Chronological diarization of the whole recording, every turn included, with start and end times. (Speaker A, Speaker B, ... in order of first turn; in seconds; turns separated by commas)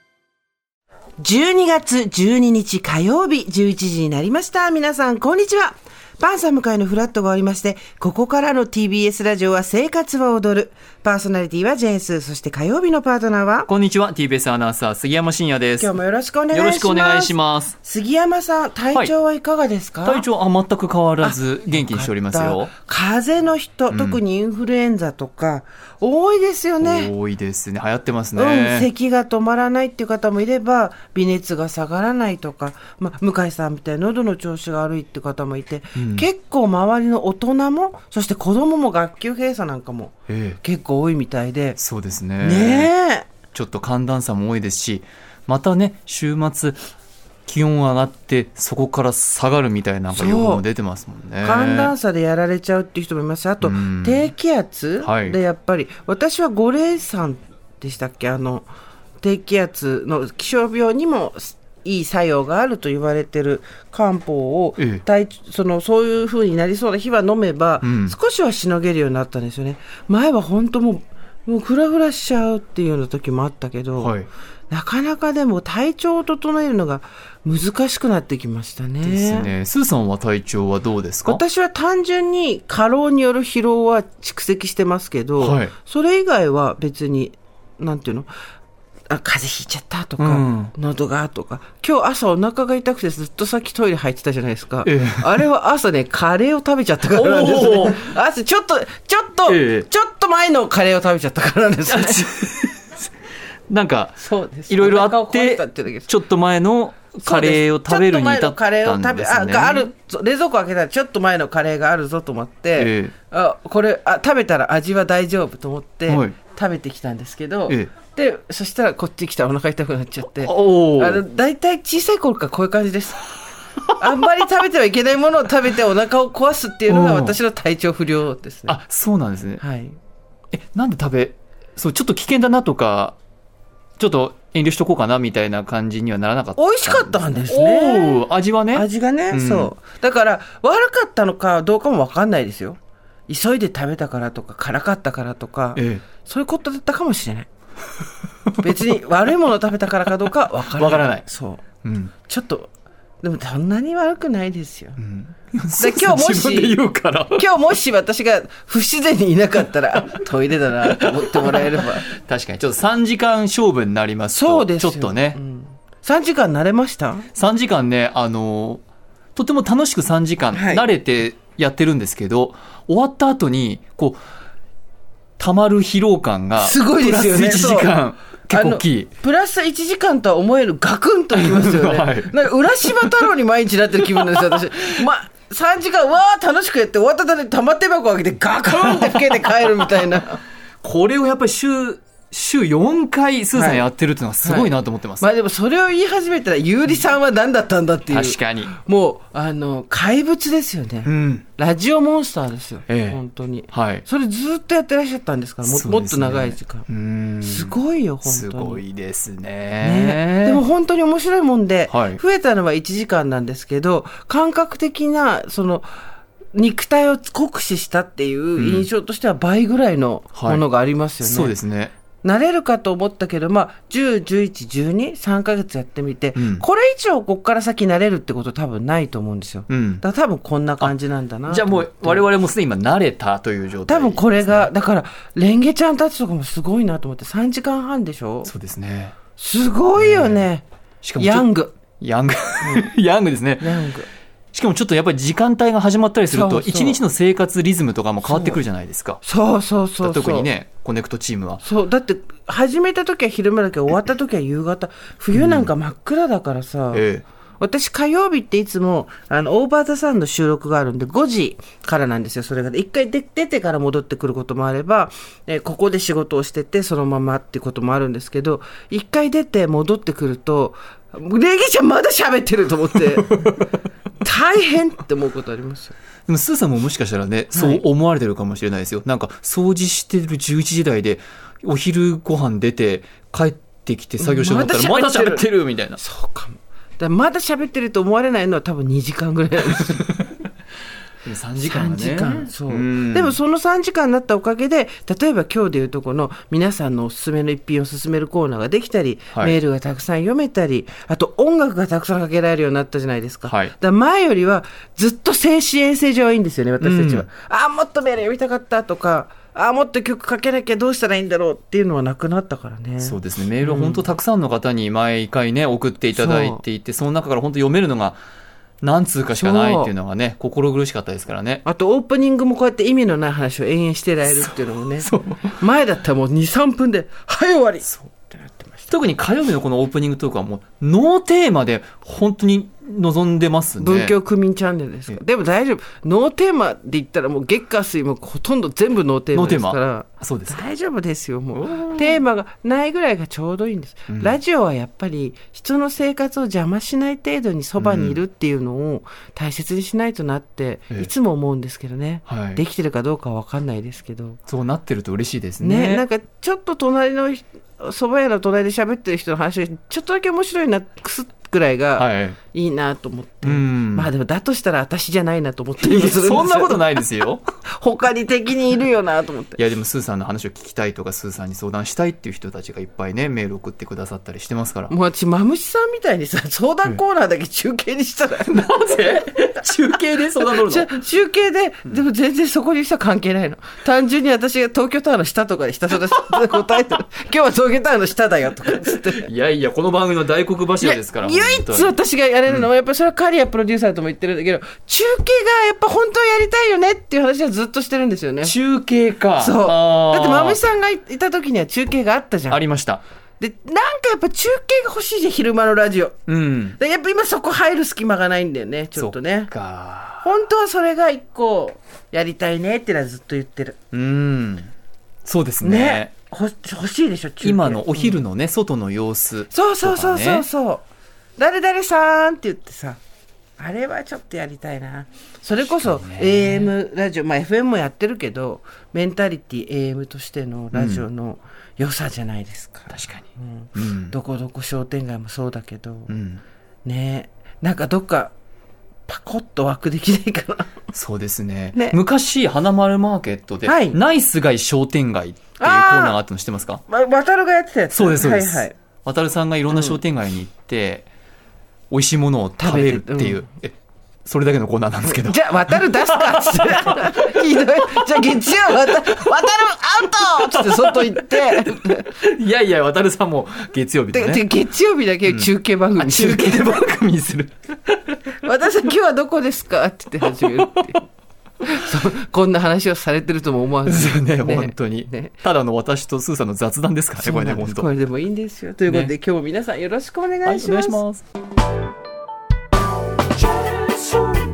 Speaker A: 1.2-13.7, Speaker B: 13.7-15.9, Speaker A: 15.8-20.3, Speaker B: 16.5-17.7, Speaker B: 20.0-22.7, Speaker A: 21.2-27.1, Speaker B: 23.9-24.2, Speaker B: 26.8-28.9, Speaker A: 28.3-41.8, Speaker B: 36.0-36.2, Speaker B: 40.3-40.6, Speaker B: 41.8-42.9, Speaker A: 42.4-43.3, Speaker B: 43.5-46.8, Speaker B: 47.5-51.9, Speaker A: 50.1-50.6, Speaker A: 51.4-58.7, Speaker B: 53.6-54.3, Speaker B: 55.0-55.4, Speaker A: 59.2-74.2, Speaker B: 67.8-68.1, Speaker B: 74.0-74.3, Speaker A: 74.7-79.5, Speaker B: 79.0-81.4, Speaker A: 81.2-88.3, Speaker B: 85.4-85.7, Speaker A: 89.1-102.3, Speaker B: 90.2-90.7, Speaker B: 94.8-95.4, Speaker B: 97.1-98.0, Speaker B: 99.5-99.9, Speaker B: 101.8-103.1, Speaker B: 103.7-109.9, Speaker A: 104.2-106.1, Speaker A: 107.2-123.3, Speaker B: 112.8-113.1, Speaker B: 116.1-116.3, Speaker B: 120.4-121.2, Speaker A: 124.0-128.8, Speaker B: 126.9-127.4, Speaker B: 128.7-129.6, Speaker A: 129.6-129.9, Speaker B: 130.5-133.2, Speaker B: 134.0-139.7, Speaker A: 136.6-147.5, Speaker B: 145.7-146.0, Speaker B: 148.5-149.0, Speaker A: 148.6-151.6, Speaker B: 150.7-151.2, Speaker B: 151.8-152.1, Speaker A: 152.2-152.7, Speaker A: 153.2-155.0, Speaker B: 155.0-157.5, Speaker A: 155.8-162.1, Speaker B: 160.9-165.4, Speaker A: 164.3-167.3, Speaker B: 167.3-168.8, Speaker B: 169.3-174.2, Speaker A: 170.5-170.8, Speaker B: 175.4-179.1, Speaker A: 176.6-178.0, Speaker A: 178.5-190.4, Speaker B: 181.3-182.3, Speaker B: 182.9-183.1, Speaker B: 188.7-189.6, Speaker B: 190.8-195.2, Speaker A: 193.5-193.9, Speaker A: 194.4-206.9, Speaker B: 198.1-198.7, Speaker B: 201.0-201.4, Speaker B: 202.9-203.2, Speaker B: 203.7-204.1, Speaker B: 205.6-210.6, Speaker A: 207.4-208.8, Speaker A: 209.8-215.9, Speaker B: 211.9-212.2, Speaker A: 216.5-221.6, Speaker B: 218.6-218.9, Speaker B: 220.3-220.6, Speaker B: 221.2-221.9, Speaker A: 222.2-232.2, Speaker B: 226.3-226.6, Speaker B: 229.7-230.0, Speaker B: 231.5-234.7, Speaker A: 233.9-238.5, Speaker B: 238.4-239.2, Speaker A: 239.4-240.6, Speaker B: 239.9-240.5, Speaker B: 241.0-241.5, Speaker A: 241.2-241.8, Speaker B: 242.0-243.8, Speaker A: 242.6-242.9, Speaker A: 243.6-244.1, Speaker B: 244.5-249.2, Speaker A: 246.3-247.0, Speaker A: 248.2-248.6, Speaker A: 249.2-250.5, Speaker B: 250.0-251.6, Speaker A: 251.6-257.1, Speaker B: 255.3-255.7, Speaker B: 256.9-257.2, Speaker A: 257.6-273.5, Speaker A: 274.2-275.9, Speaker B: 276.3-286.0, Speaker A: 277.5-277.8, Speaker A: 284.2-290.1, Speaker B: 289.8-290.4, Speaker B: 291.2-293.4, Speaker A: 291.6-314.1, Speaker B: 303.4-303.7, Speaker B: 306.8-307.2, Speaker B: 313.0-318.2, Speaker A: 316.1-316.6, Speaker B: 318.8-321.6, Speaker A: 319.3-319.9, Speaker A: 321.6-328.9, Speaker B: 324.3-325.5, Speaker B: 328.9-334.1, Speaker A: 333.8-354.4, Speaker B: 339.3-340.6, Speaker B: 341.5-342.2, Speaker B: 344.1-344.4, Speaker B: 347.8-348.2, Speaker B: 352.3-352.6, Speaker B: 354.5-356.0, Speaker A: 355.6-366.8, Speaker B: 362.0-362.4, Speaker B: 363.4-364.1, Speaker B: 365.8-367.4, Speaker A: 367.7-369.6, Speaker B: 369.6-374.9, Speaker A: 374.9-379.2, Speaker B: 378.4-380.9, Speaker A: 380.4-389.3, Speaker B: 386.5-386.8, Speaker B: 388.8-391.9, Speaker A: 390.8-398.6, Speaker B: 398.4-400.6, Speaker A: 399.4-402.6, Speaker B: 402.5-403.0, Speaker A: 403.4-406.2, Speaker B: 406.3-406.8, Speaker A: 406.7-409.5, Speaker B: 408.9-410.3, Speaker A: 410.2-413.8, Speaker B: 413.9-414.7, Speaker B: 415.2-416.1, Speaker A: 415.6-418.2, Speaker B: 417.4-420.5, Speaker A: 419.5-420.8, Speaker A: 421.4-423.0, Speaker A: 423.6-436.1, Speaker B: 425.8-426.7, Speaker B: 430.7-431.0, Speaker B: 432.9-434.1, Speaker B: 436.1-436.4, Speaker A: 436.8-438.3, Speaker A: 439.1-440.9, Speaker B: 440.9-446.8, Speaker A: 441.7-442.0, Speaker A: 443.6-444.0, Speaker A: 445.6-446.2, Speaker A: 446.9-448.7, Speaker B: 447.9-451.1, Speaker A: 449.7-450.0, Speaker B: 451.9-453.7, Speaker A: 452.6-453.4, Speaker B: 454.2-458.1, Speaker A: 455.0-462.1, Speaker B: 458.7-459.2, Speaker B: 460.2-464.4, Speaker A: 464.1-466.7, Speaker B: 465.2-467.5, Speaker A: 468.4-471.0, Speaker B: 470.3-470.8, Speaker A: 471.6-475.3, Speaker B: 473.8-477.9, Speaker A: 477.2-481.0, Speaker B: 480.4-481.2, Speaker A: 483.6-484.4